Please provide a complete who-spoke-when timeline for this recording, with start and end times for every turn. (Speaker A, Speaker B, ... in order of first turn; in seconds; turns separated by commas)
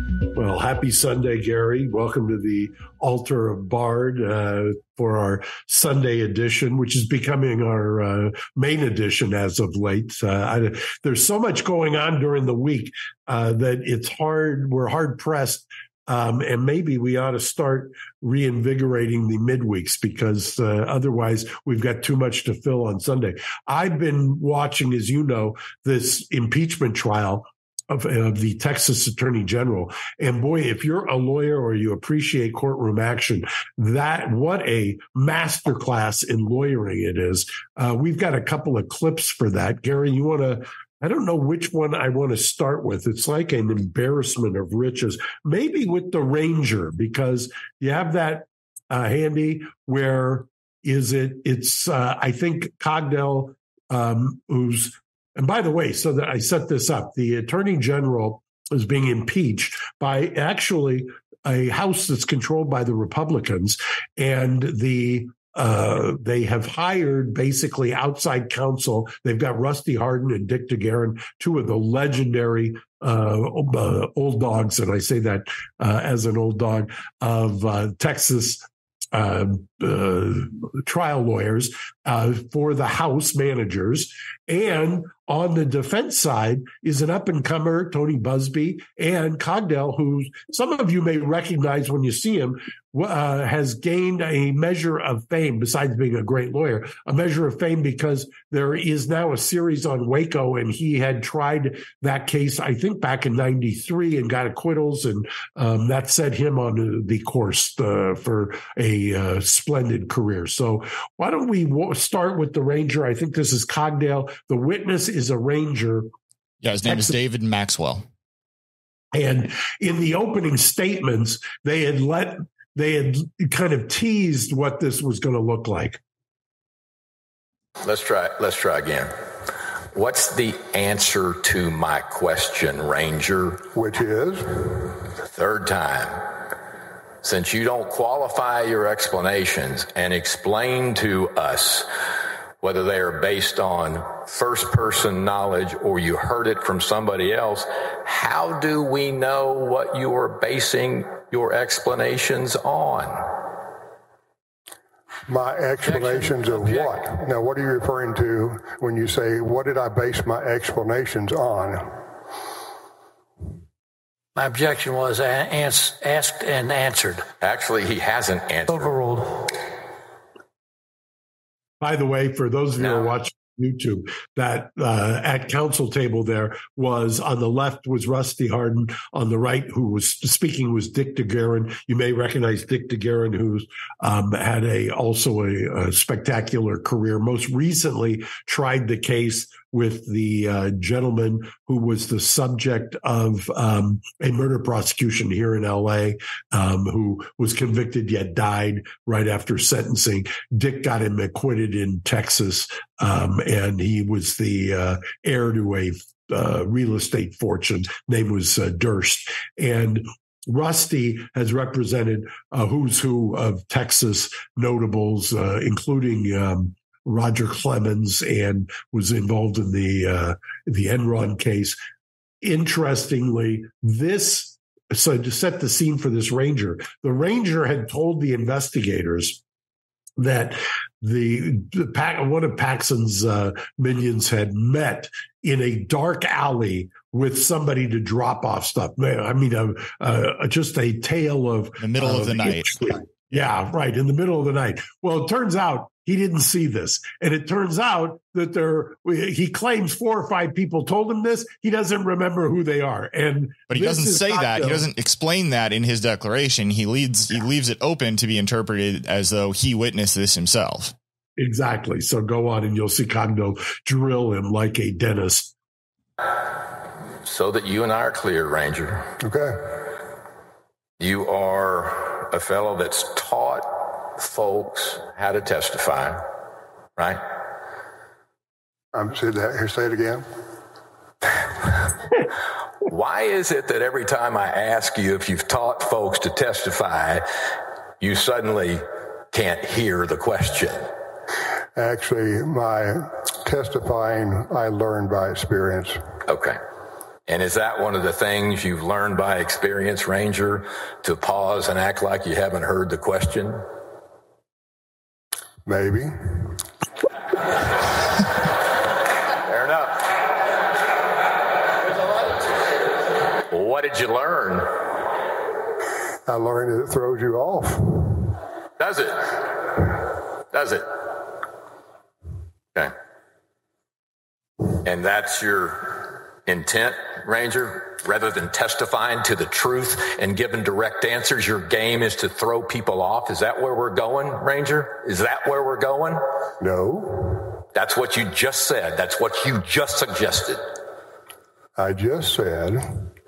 Speaker A: 0.3-116.1, Speaker B: 116.6-118.1, Speaker A: 116.8-117.1, Speaker A: 119.1-126.0, Speaker C: 127.8-129.1, Speaker C: 129.9-133.6, Speaker D: 133.7-134.9, Speaker C: 135.2-136.2, Speaker C: 137.2-141.9, Speaker C: 142.6-153.3, Speaker D: 155.3-161.9, Speaker E: 164.3-167.3, Speaker C: 167.4-169.2, Speaker A: 171.8-221.8, Speaker C: 172.8-173.1, Speaker A: 222.4-229.4, Speaker A: 230.2-254.9, Speaker B: 241.8-242.8, Speaker B: 253.7-260.9, Speaker A: 261.4-265.5, Speaker C: 267.2-269.0, Speaker D: 269.2-269.6, Speaker C: 271.0-276.2, Speaker D: 278.9-280.2, Speaker C: 282.9-287.2, Speaker C: 288.0-290.9, Speaker D: 291.8-296.0, Speaker C: 296.2-296.6, Speaker C: 297.3-303.6, Speaker D: 305.6-306.5, Speaker C: 309.4-310.1, Speaker C: 313.5-314.7, Speaker D: 316.3-318.3, Speaker C: 318.8-319.9, Speaker C: 320.5-320.9, Speaker C: 324.7-336.2, Speaker D: 336.6-337.4, Speaker C: 337.7-340.6, Speaker D: 341.8-343.1